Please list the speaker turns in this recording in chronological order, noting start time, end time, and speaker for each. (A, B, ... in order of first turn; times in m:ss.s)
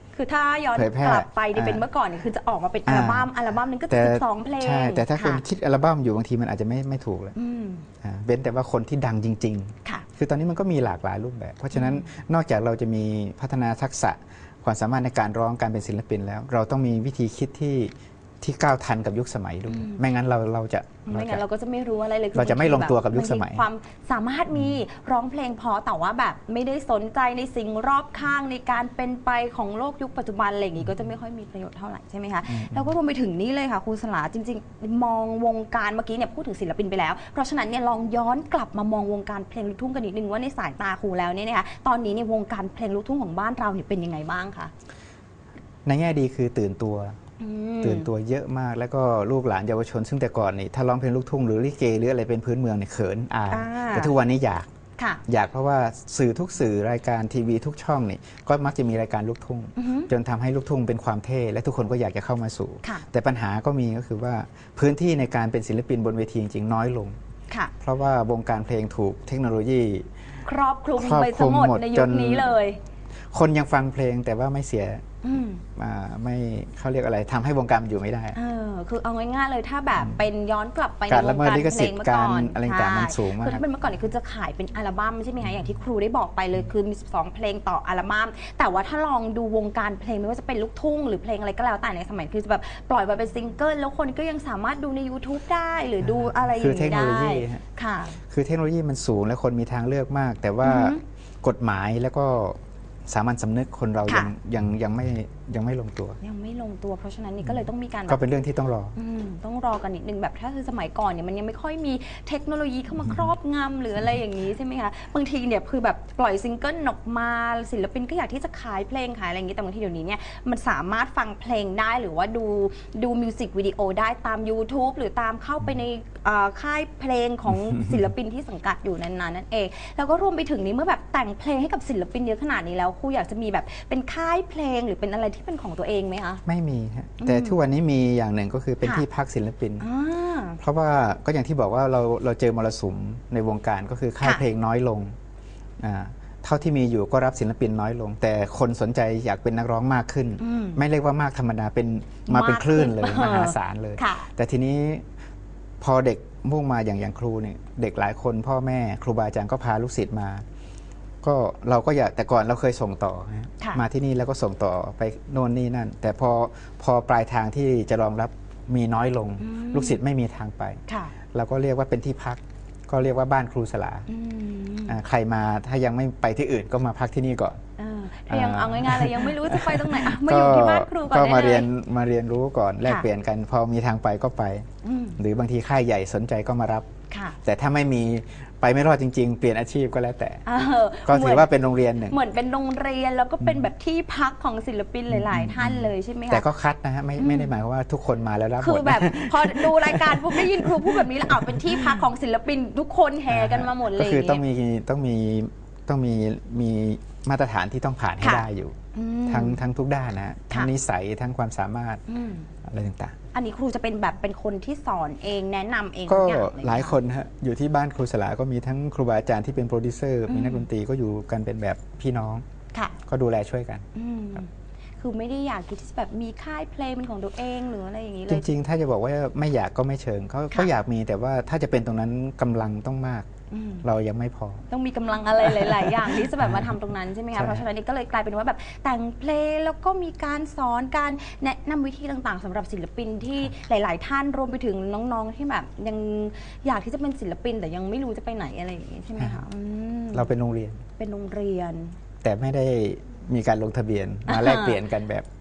0:00.1-0:05.4 A
0:00.7-0:01.9 B
0:02.9-0:03.3 B
0:03.9-0:07.4 B
0:07.4-0:07.9 A
0:08.0-0:21.4 B
0:11.7-0:12.1 A
0:19.7-0:20.0 A
0:21.1-0:44.7 A
0:22.3-0:23.6 B
0:32.5-0:32.9 B
0:45.8-0:47.2 B
0:47.4-0:48.1 A
0:47.8-0:54.7 B
0:53.5-0:54.2 A
0:55.0-0:55.2 A
0:55.3-1:07.2 B
0:59.8-1:00.1 A
1:07.8-1:10.1 B
1:10.4-1:12.8 A
1:11.0-1:12.6 B
1:13.3-1:15.0 B
1:15.2-1:15.6 A
1:15.8-1:18.4 B
1:18.3-1:38.2 A
1:21.1-1:23.6 B
1:36.0-1:37.6 B
1:38.3-1:46.2 B
1:40.6-1:41.0 A
1:44.1-1:44.3 A
1:46.2-1:48.2 A
1:48.1-1:49.0 B
1:49.0-2:16.4 A
2:16.5-2:19.8 B
2:17.2-2:17.6 A
2:19.8-2:20.6 A
2:20.6-2:25.1 B
2:24.2-2:24.5 A
2:25.8-2:35.0 B
2:30.4-2:30.8 A
2:32.3-2:34.3 A
2:35.8-2:40.4 B
2:41.2-2:50.8 B
2:49.4-2:50.0 A
2:50.9-2:51.1 A
2:51.3-2:54.1 B
2:54.1-2:55.0 A
2:54.9-2:57.6 B
2:57.8-3:01.7 A
2:58.3-3:06.9 B
3:02.8-3:03.1 A
3:04.8-3:05.2 A
3:07.1-3:07.4 A
3:07.4-3:10.4 B
3:10.5-3:11.5 A
3:11.1-3:12.2 B
3:12.0-3:16.4 A
3:15.1-3:22.0 B
3:17.2-3:17.5 A
3:18.6-3:24.4 A
3:23.3-3:32.0 B
3:28.2-3:29.6 A
3:32.1-3:32.5 A
3:32.6-3:33.2 B
3:33.3-3:37.0 A
3:36.1-3:42.4 B
3:40.3-3:40.7 A
3:42.7-3:43.0 A
3:43.1-3:43.9 B
3:43.9-3:48.5 A
3:48.3-3:53.3 B
3:53.5-3:53.8 A
3:53.8-3:54.6 B
3:54.7-4:10.3 A
3:55.4-3:56.8 B
3:57.3-3:57.7 B
4:09.2-4:09.4 B
4:10.1-4:10.8 B
4:11.0-4:12.0 A
4:12.2-4:15.3 B
4:14.3-4:14.8 A